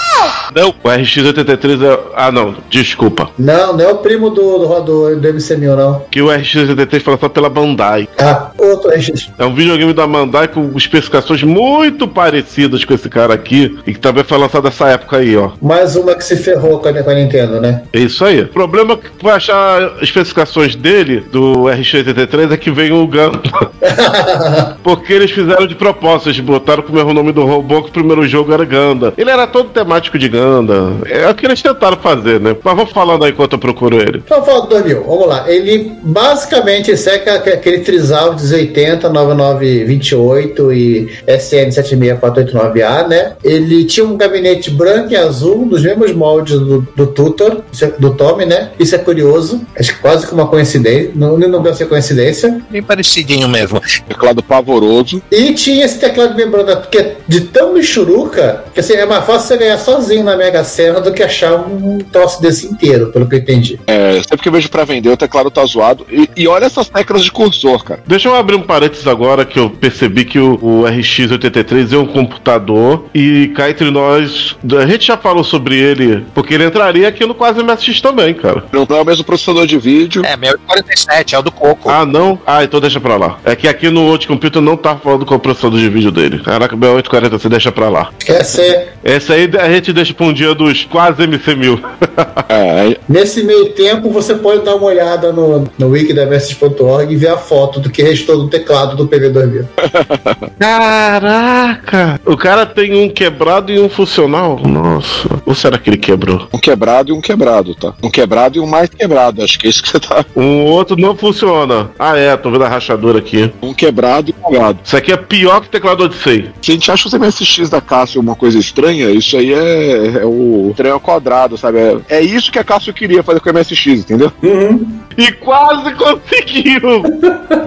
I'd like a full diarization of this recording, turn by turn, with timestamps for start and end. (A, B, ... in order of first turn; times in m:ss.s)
0:00.8-0:03.3 A
0:03.4-0:06.1 B
0:06.1-0:08.1 A
0:08.2-0:09.3 B
0:09.4-0:15.6 A
0:15.6-0:17.9 B
0:17.9-0:23.7 A
0:23.8-0:24.7 B
0:24.8-0:34.2 A
0:34.3-0:52.6 B
0:52.7-0:54.0 C
0:54.1-0:55.2 D
0:55.3-1:03.8 B
1:03.9-1:08.0 D
1:08.1-1:18.6 A
1:18.7-1:20.3 D
1:20.2-1:22.0 C
1:21.9-1:28.1 A
1:28.2-1:28.9 B
1:29.0-1:32.4 A
1:32.5-1:33.0 D
1:33.1-1:39.7 B
1:39.8-1:40.4 D
1:40.6-1:46.5 A
1:46.5-1:50.3 D
1:50.4-1:53.5 A
1:53.6-1:54.8 D
1:54.8-1:56.5 A
1:56.6-2:04.4 D
2:04.4-2:04.9 B
2:05.2-2:07.1 A
2:07.2-2:07.6 B